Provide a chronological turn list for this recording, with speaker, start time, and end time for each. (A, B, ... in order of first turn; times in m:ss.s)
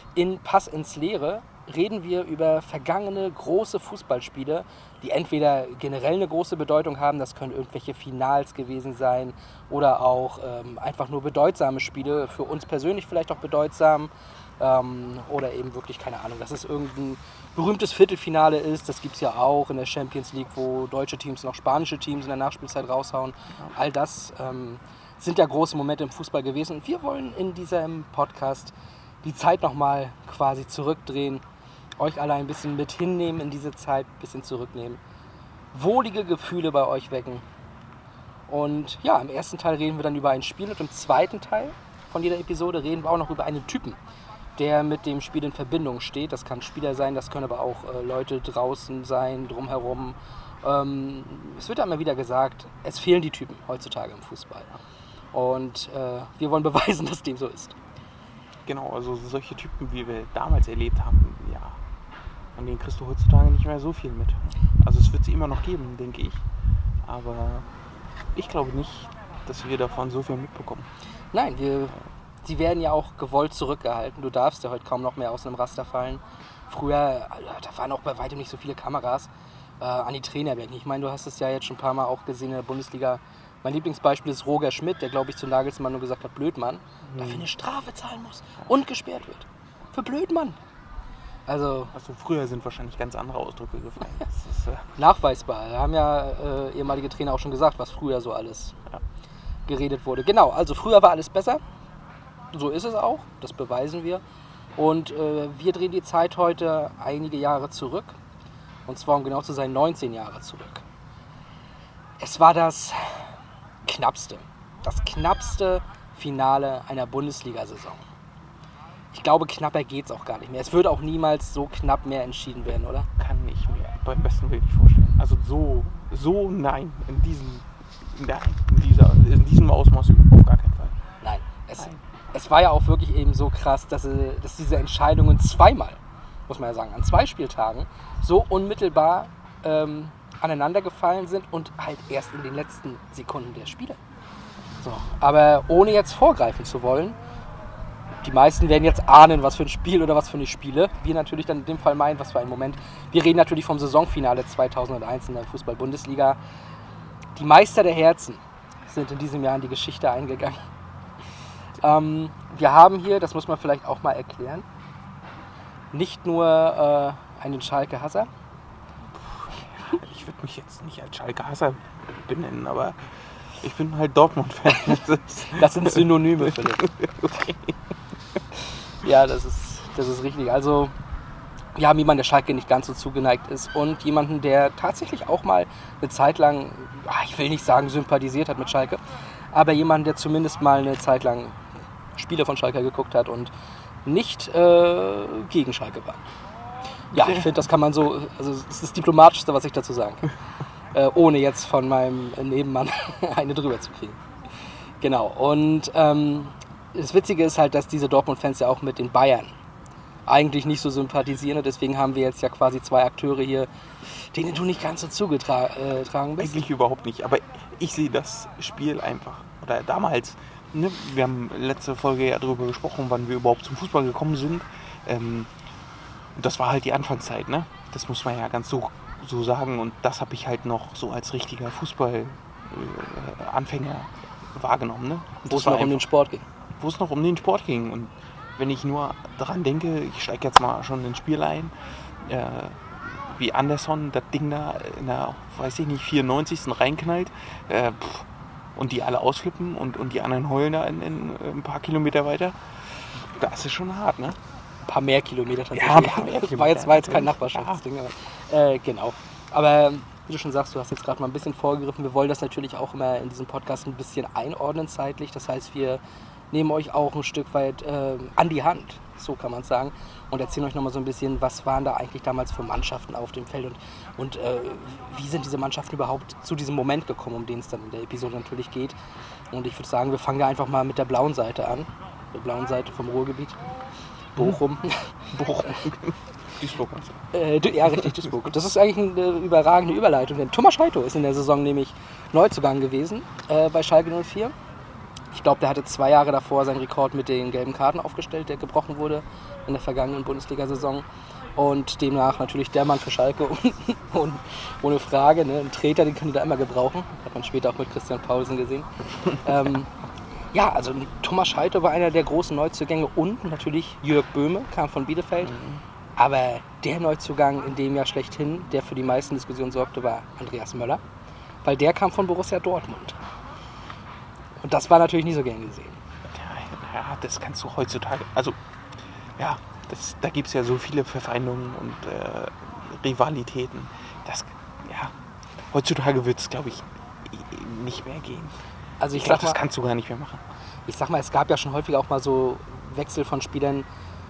0:00.1-0:31.4 A
0:32.0-0:35.0 A
0:35.7-0:37.4 A
0:38.5-0:44.0 A
0:44.6-0:54.7 A
0:55.3-0:57.8 A
0:58.6-1:01.8 B
1:02.6-1:06.4 B
1:07.0-1:07.7 B
1:08.3-1:10.9 B
1:11.3-1:19.3 A
1:19.8-1:30.6 A
1:27.0-1:27.4 B
1:31.5-1:31.9 A
1:31.9-1:34.9 B
1:35.0-1:38.8 A
1:39.6-1:41.6 A
1:42.5-1:44.2 A
1:44.8-1:48.2 A
1:48.8-1:50.8 A
1:52.2-1:53.3 A
1:53.8-1:58.0 A
1:59.1-2:03.1 A
2:03.2-2:10.9 B
2:11.2-2:24.0 A
2:24.8-2:27.2 A
2:28.2-2:36.4 A
2:37.4-2:40.6 A
2:41.8-2:44.6 A
2:45.9-2:48.3 A
2:49.2-2:53.0 B
2:53.6-2:56.1 B
2:55.5-2:56.9 A
2:56.8-2:57.7 B
2:59.0-3:00.9 A
3:01.7-3:11.6 A
3:12.1-3:13.5 A
3:14.0-3:16.2 A
3:17.1-3:20.3 A
3:20.9-3:24.2 A
3:25.0-3:29.5 A
3:30.3-3:36.6 A
3:36.4-3:45.5 B
3:46.4-3:56.0 B
3:55.5-3:56.5 A
3:56.8-4:01.7 B
4:02.2-4:12.6 B
4:13.2-4:14.4 B
4:14.8-4:38.9 A
4:15.7-4:17.8 B
4:39.5-4:43.6 A
4:44.3-4:44.9 A
4:45.3-4:47.3 B
4:47.3-4:54.5 A
4:55.3-5:08.9 A
5:09.4-5:09.9 A
5:10.5-5:15.5 A
5:15.4-5:15.8 B
5:16.2-5:21.0 A
5:21.6-5:23.2 A
5:24.6-5:26.0 A
5:26.3-5:28.5 B
5:29.4-5:35.1 B
5:35.7-5:38.5 B
5:39.0-5:39.6 A
5:39.1-5:40.4 B
5:40.9-5:43.9 A